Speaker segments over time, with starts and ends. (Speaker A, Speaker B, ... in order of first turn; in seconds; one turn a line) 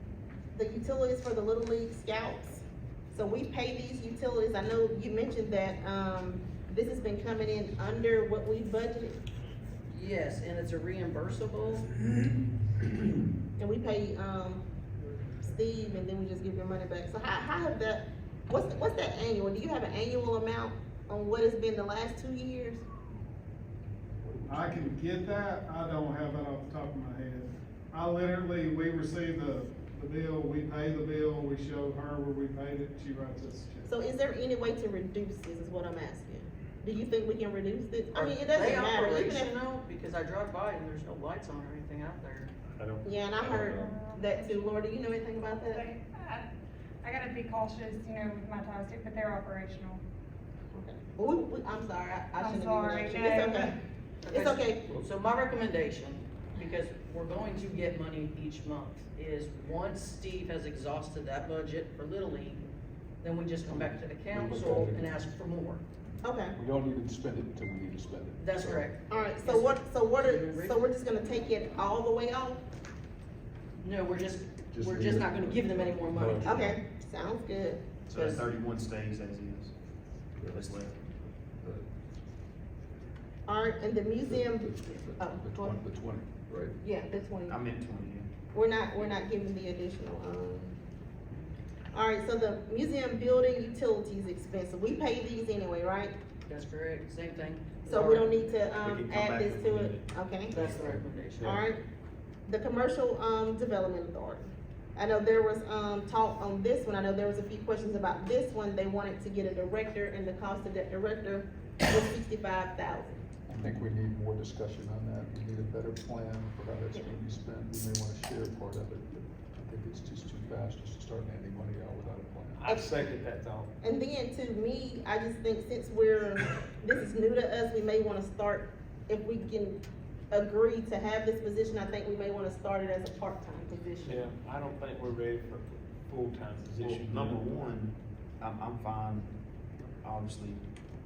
Speaker A: 0.5-9.2
Speaker B: 9.9-11.9
Speaker A: 13.6-14.6
Speaker A: 15.4-22.8
Speaker C: 24.1-24.9
Speaker D: 24.5-33.9
Speaker A: 33.9-39.5
Speaker B: 38.1-42.5
Speaker E: 42.7-43.9
Speaker A: 43.0-45.9
Speaker F: 43.6-44.7
Speaker F: 45.6-46.5
Speaker F: 47.0-50.0
Speaker A: 50.7-53.7
Speaker F: 52.4-53.7
Speaker B: 54.2-62.6
Speaker A: 54.3-54.8
Speaker B: 63.2-65.8
Speaker C: 63.7-65.2
Speaker A: 66.2-66.5
Speaker C: 66.5-68.9
Speaker B: 68.4-70.8
Speaker A: 69.1-72.6
Speaker B: 73.8-76.7
Speaker C: 74.7-76.7
Speaker A: 76.4-77.9
Speaker G: 78.0-79.7
Speaker B: 78.1-78.5
Speaker C: 80.4-80.7
Speaker G: 80.5-80.9
Speaker A: 83.5-85.8
Speaker C: 84.2-86.8
Speaker A: 86.8-87.6
Speaker G: 87.5-88.3
Speaker A: 88.5-90.5
Speaker A: 91.9-96.1
Speaker B: 96.5-98.4
Speaker A: 97.8-100.6
Speaker G: 98.8-100.8
Speaker B: 100.5-101.6
Speaker A: 101.4-101.8
Speaker A: 102.5-113.1
Speaker C: 113.5-122.7
Speaker E: 122.6-123.7
Speaker A: 123.8-129.8
Speaker A: 130.3-134.3
Speaker E: 134.0-137.6
Speaker G: 136.8-139.3
Speaker G: 140.0-140.6